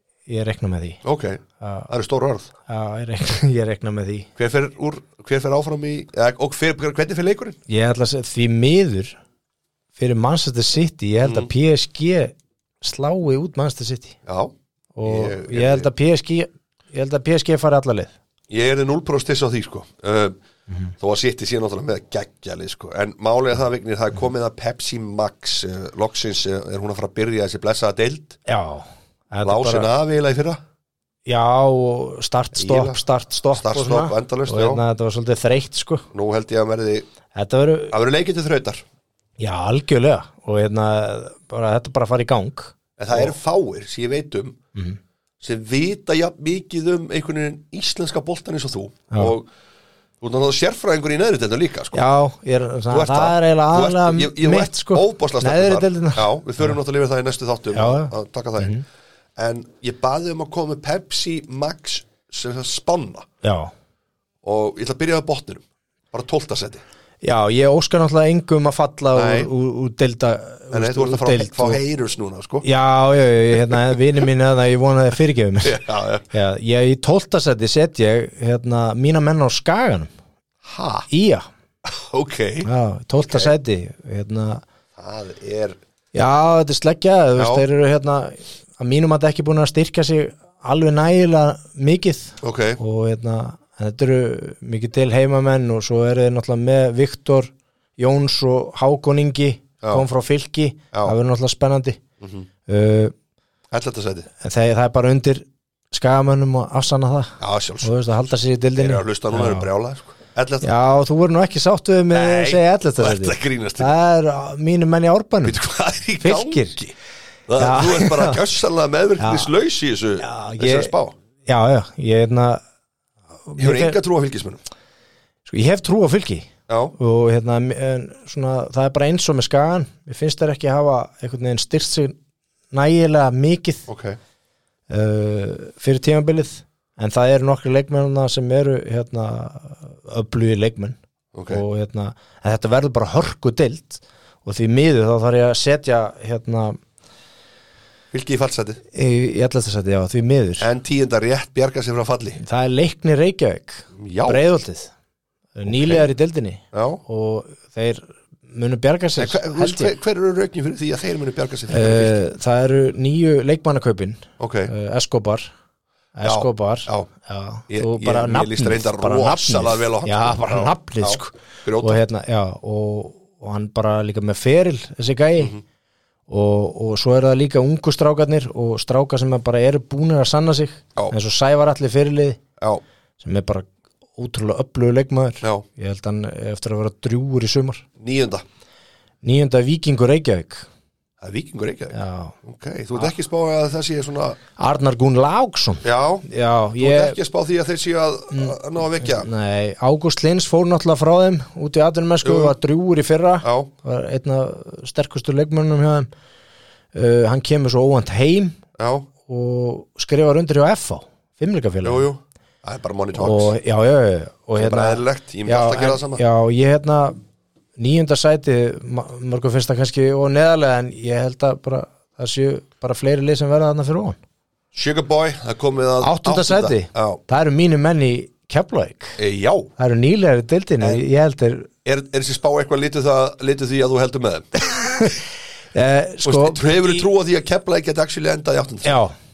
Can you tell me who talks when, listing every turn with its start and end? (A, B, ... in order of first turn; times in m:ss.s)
0:00.3-0:01.0 A
0:01.0-0:02.5 B
0:01.6-0:01.9 A
0:02.7-0:04.3 A
0:04.4-0:07.6 B
0:07.7-0:09.2 A
0:10.0-0:14.2 A
0:11.2-0:11.5 B
0:14.2-0:14.5 B
0:14.9-0:18.1 A
0:15.0-0:15.9 B
0:18.5-0:20.3 B
0:21.0-0:28.4 B
0:28.4-0:29.9 A
0:29.4-0:30.6 B
0:31.2-0:36.1 A
0:32.5-0:33.0 B
0:33.5-0:34.8 B
0:36.1-0:37.1 B
0:37.3-0:37.9 A
0:37.9-0:38.8 B
0:39.4-0:43.3 A
0:43.0-0:44.6 B
0:45.4-0:49.5 B
0:50.2-0:52.0 B
0:51.9-0:56.8 A
0:52.9-0:58.8 B
0:57.7-0:58.8 A
0:59.4-1:03.3 B
1:03.4-1:03.7 A
1:04.4-1:06.8 B
1:07.2-1:11.8 A
1:09.1-1:09.5 B
1:10.7-1:12.6 B
1:12.6-1:20.1 A
1:15.6-1:16.2 B
1:20.6-1:21.1 B
1:21.1-1:21.5 A
1:21.8-1:22.7 B
1:22.6-1:24.6 A
1:23.2-1:23.5 B
1:25.0-1:25.8 B
1:26.1-1:42.0 A
1:27.4-1:27.6 B
1:32.4-1:32.8 B
1:42.2-1:42.5 B
1:42.7-1:43.1 A
1:43.7-1:44.3 B
1:44.4-1:49.7 A
1:47.4-1:47.9 B
1:48.8-1:50.7 B
1:50.6-1:55.6 A
1:52.1-1:53.9 B
1:55.4-1:56.9 B
1:56.2-1:56.8 A
1:57.5-2:01.1 B
1:57.6-1:58.4 A
1:59.2-1:59.5 A
2:00.2-2:00.9 A
2:01.4-2:02.6 A
2:03.5-2:04.0 A
2:03.6-2:04.6 B
2:05.4-2:12.1 A
2:06.7-2:06.9 B
2:12.7-2:13.9 A
2:13.9-2:14.2 B
2:14.9-2:21.0 A
2:21.3-2:21.6 B
2:21.5-2:26.8 A
2:28.1-2:28.8 B
2:28.9-2:30.7 A
2:30.6-2:32.4 B
2:32.4-2:34.9 A
2:34.0-2:34.4 B
2:35.6-2:39.9 A
2:35.7-2:36.1 B
2:36.7-2:37.0 B
2:39.2-2:42.2 B
2:41.7-2:45.5 A
2:44.4-2:44.7 B
2:46.2-2:55.5 A
2:46.2-2:47.1 B
2:47.7-2:52.0 B
2:56.3-3:02.4 A
3:03.2-3:07.8 A
3:08.0-3:08.4 B
3:09.2-3:10.7 A
3:11.2-3:14.4 B
3:11.9-3:12.4 A
3:14.6-3:17.2 A
3:15.8-3:16.3 B
3:16.8-3:19.3 B
3:18.3-3:26.1 A
3:22.2-3:22.6 B
3:23.4-3:23.7 B
3:26.9-3:28.6 A
3:28.8-3:29.1 B
3:29.2-3:32.1 A
3:31.8-3:33.5 B
3:33.1-3:37.2 A
3:34.6-3:36.2 B
3:37.8-3:44.2 A
3:44.7-3:47.2 B
3:46.0-3:49.2 A
3:49.2-3:49.7 B
3:49.8-3:51.7 A
3:51.8-3:55.1 B
3:55.7-3:57.1 A
3:56.2-3:59.0 B
3:58.8-3:59.2 A